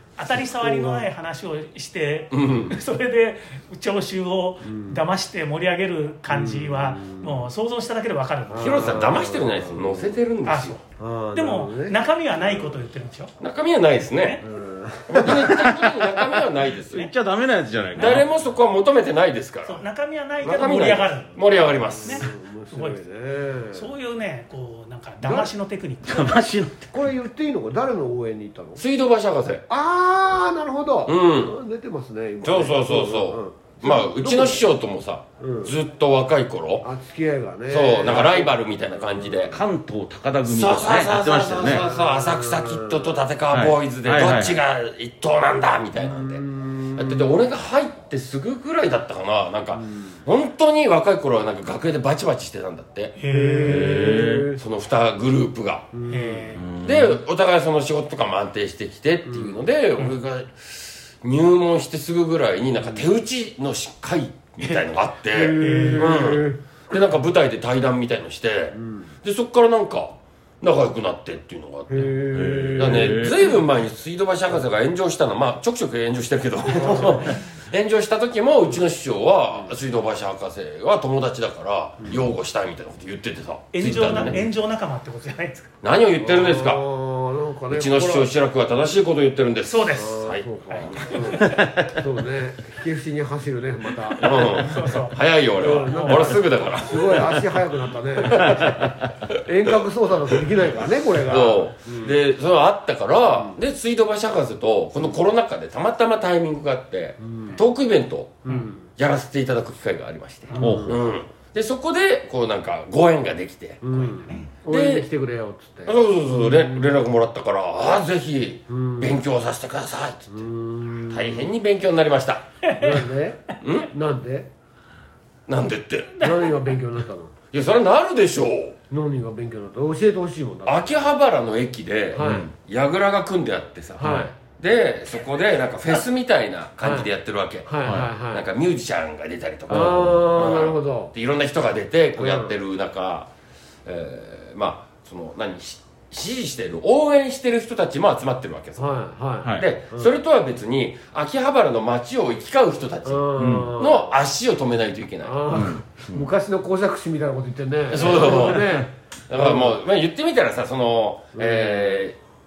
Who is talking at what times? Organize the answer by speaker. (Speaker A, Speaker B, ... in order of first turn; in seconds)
Speaker A: 0.2-9.0, 10.4-10.8, 11.3-13.3, 14.1-14.4, 19.6-21.4, 21.9-23.0, 23.7-26.4, 53.2-54.1, 56.1-56.6, 65.6-66.1, 83.7-85.7, 89.7-91.2, 94.2-96.4, 110.5-110.8, 113.9-114.5, 122.6-123.1, 126.2-126.6
Speaker B: 0.3-1.1, 4.7-5.0, 6.3-7.5, 8.5-10.2, 11.0-12.8, 14.4-15.9, 22.0-23.9, 25.2-25.5, 26.9-28.8, 29.7-34.6, 35.4-35.7, 36.8-39.5, 41.6-43.2, 46.0-47.4, 53.3-54.6, 55.9-56.6, 59.3-59.6, 65.3-66.6, 68.7-69.1, 71.9-73.5, 76.8-77.3, 83.9-84.4, 86.2-88.3, 89.9-94.6, 95.6-102.2, 107.2-107.6, 108.5-108.8, 110.5-111.0, 113.8-117.0, 118.7-119.2, 120.3-121.5, 122.8-124.5, 126.2-127.3, 128.9-131.1, 132.1-132.5, 134.0-134.3, 136.8-137.1, 137.7-138.5, 139.7-141.1, 142.2-142.6, 148.8-150.1, 153.1-154.1, 155.2-159.8, 161.4-162.1
Speaker C: 2.3-2.8, 8.6-10.8, 13.4-14.4, 15.1-17.1, 17.9-19.8, 20.4-22.3, 28.8-29.6, 31.1-31.6, 32.4-36.9, 37.7-39.6, 40.5-46.4, 47.0-53.1, 53.9-55.9, 56.8-72.2, 72.8-84.4, 85.8-86.8, 87.7-91.4, 94.2-97.5, 98.3-99.4, 101.2-113.8, 114.7-115.1, 115.8-120.4, 121.1-122.4, 123.6-123.9, 125.5-126.3, 127.5-128.8, 130.7-143.3, 143.9-148.9, 149.6-155.4, 157.9-162.2
Speaker D: 16.9-18.3, 26.0-26.9, 39.5-41.8, 43.5-44.6, 53.7-54.5, 56.6-57.2, 72.3-73.4, 91.4-91.9, 98.4-99.1, 110.6-110.9, 132.2-132.5, 153.4-153.8, 155.5-156.3, 158.3-158.8